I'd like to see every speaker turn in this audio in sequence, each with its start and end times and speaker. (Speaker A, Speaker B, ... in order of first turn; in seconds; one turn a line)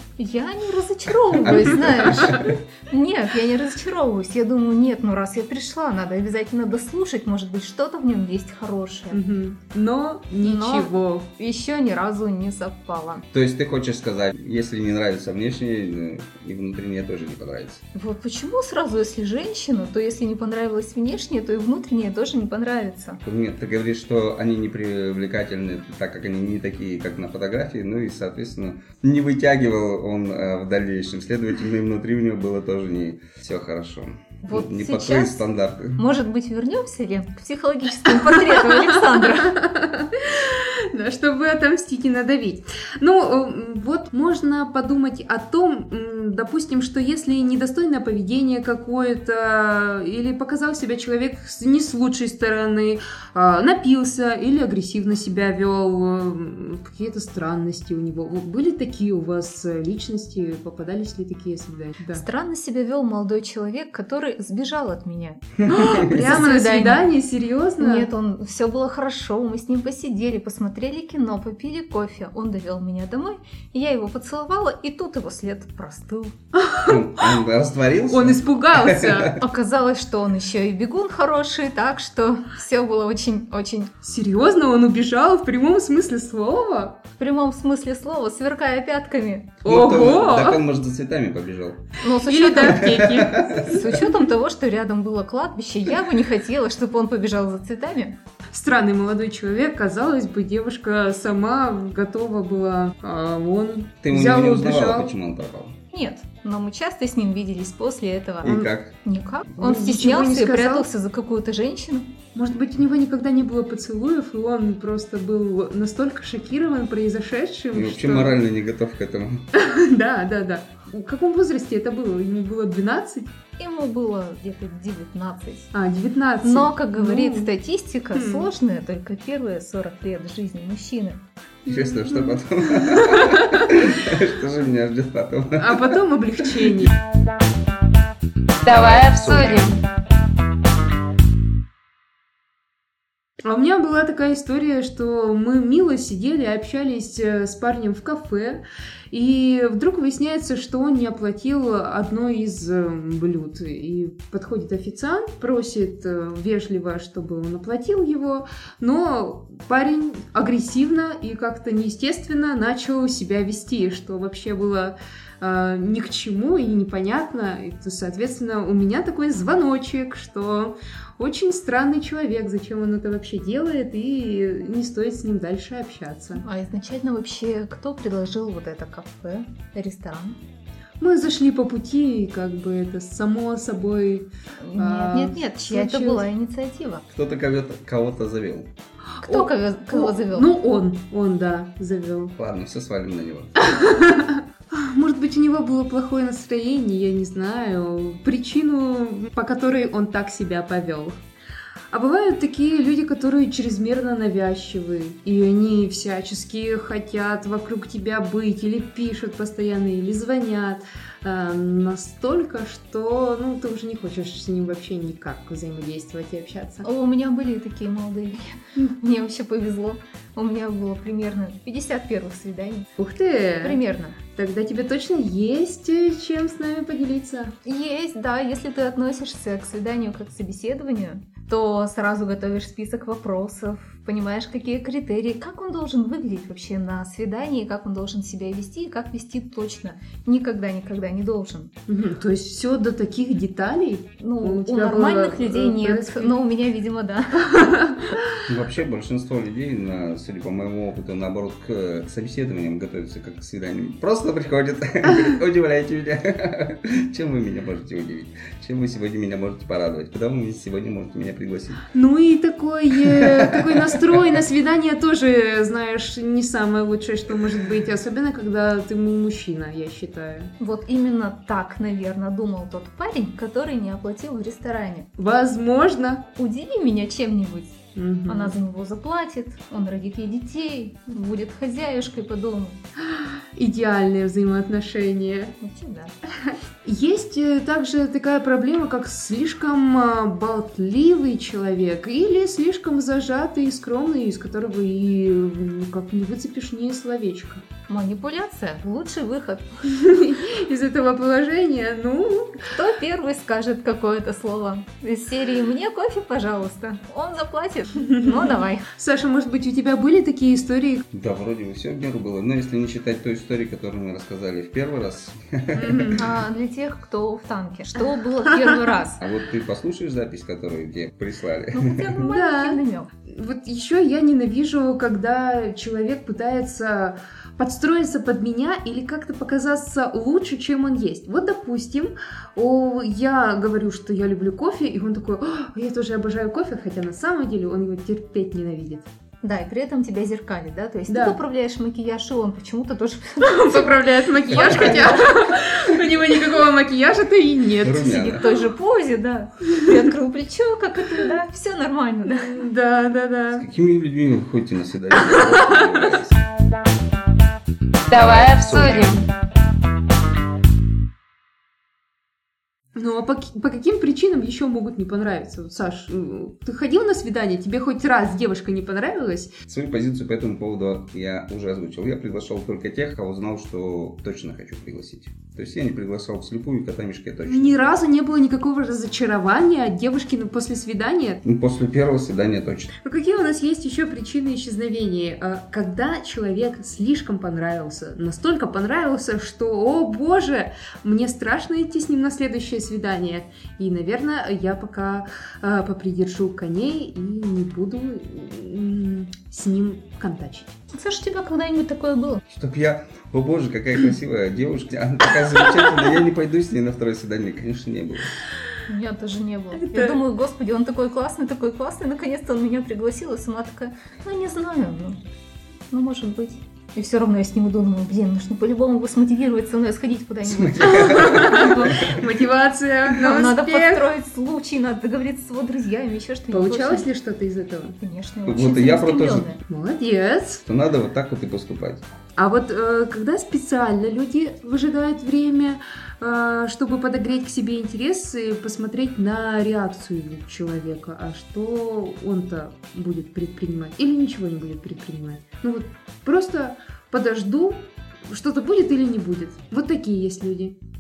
Speaker A: 0.2-9.2
Speaker B: 1.3-2.6
Speaker C: 1.4-2.4
Speaker C: 9.1-11.3
Speaker A: 10.4-13.3
Speaker B: 13.3-17.8
Speaker A: 17.9-23.2
Speaker B: 23.2-36.0
Speaker A: 34.4-35.4
Speaker A: 36.0-39.6
Speaker C: 38.0-62.2
Speaker A: 62.1-67.1
Speaker B: 65.7-66.2
Speaker C: 65.7-68.1
Speaker A: 67.8-76.4
Speaker C: 76.5-77.4
Speaker B: 76.8-79.3
Speaker C: 78.1-79.3
Speaker A: 79.4-83.9
Speaker C: 84.0-87.0
Speaker A: 87.2-89.6
Speaker B: 89.6-91.8
Speaker C: 89.7-90.6
Speaker A: 92.0-98.2
Speaker C: 92.2-94.0
Speaker B: 92.6-94.0
Speaker C: 98.5-105.1
Speaker B: 104.0-105.8
Speaker A: 105.9-112.2
Speaker B: 108.4-108.9
Speaker C: 108.4-108.7
Speaker C: 109.6-110.9
Speaker C: 112.3-118.4
Speaker B: 117.7-119.5
Speaker C: 119.5-123.3
Speaker A: 123.6-125.7
Speaker C: 125.7-127.5
Speaker A: 126.4-131.2
Speaker C: 128.1-128.5
Speaker B: 131.7-136.7
Speaker C: 131.7-133.8
Speaker C: 135.6-136.9
Speaker B: 138.7-139.8
Speaker C: 143.4-176.4
Speaker A: 176.4-180.4
Speaker C: 181.0-186.3
Speaker A: 184.6-187.1
Speaker B: 187.1-188.7
Speaker A: 189.2-190.5
Speaker C: 189.2-192.3
Speaker B: 192.4-193.7
Speaker C: 193.6-201.2
Speaker C: 201.9-216.9
Speaker A: 216.8-222.9
Speaker C: 223.0-223.8
Speaker A: 223.6-224.2
Speaker C: 224.3-227.5
Speaker A: 227.7-241.7
Speaker C: 241.9-246.4
Speaker A: 244.2-247.8
Speaker C: 247.5-248.1
Speaker B: 248.5-261.9
Speaker C: 261.9-270.5
Speaker B: 262.9-264.4
Speaker A: 270.6-275.1
Speaker C: 275.2-276.3
Speaker A: 276.4-282.8
Speaker C: 277.9-278.6
Speaker C: 283.1-285.6
Speaker A: 285.6-286.2
Speaker C: 286.4-297.7
Speaker A: 297.9-300.0
Speaker C: 299.9-302.7
Speaker A: 302.6-308.9
Speaker C: 308.0-311.0
Speaker B: 311.1-316.2
Speaker C: 315.8-316.2
Speaker A: 316.1-319.2
Speaker C: 318.5-318.8
Speaker B: 319.2-322.2
Speaker A: 321.7-323.1
Speaker C: 322.3-339.1
Speaker A: 339.4-345.4
Speaker C: 341.1-341.4
Speaker C: 343.4-348.5
Speaker B: 344.5-345.1
Speaker B: 347.8-348.5
Speaker A: 348.0-352.6
Speaker C: 352.3-353.7
Speaker B: 353.5-356.4
Speaker C: 355.1-355.9
Speaker B: 358.1-359.2
Speaker C: 362.9-369.5
Speaker B: 369.7-377.8
Speaker C: 377.5-381.4
Speaker B: 381.4-382.9
Speaker C: 383.0-400.8
Speaker A: 400.9-402.4
Speaker B: 402.5-408.4
Speaker A: 408.9-415.2
Speaker C: 409.7-410.2
Speaker A: 415.9-422.2
Speaker B: 420.4-422.2
Speaker C: 420.8-424.1
Speaker A: 423.1-427.1
Speaker C: 426.5-428.0
Speaker A: 428.0-429.6
Speaker B: 428.5-429.5
Speaker C: 429.7-430.6
Speaker B: 430.6-432.0
Speaker C: 432.4-450.8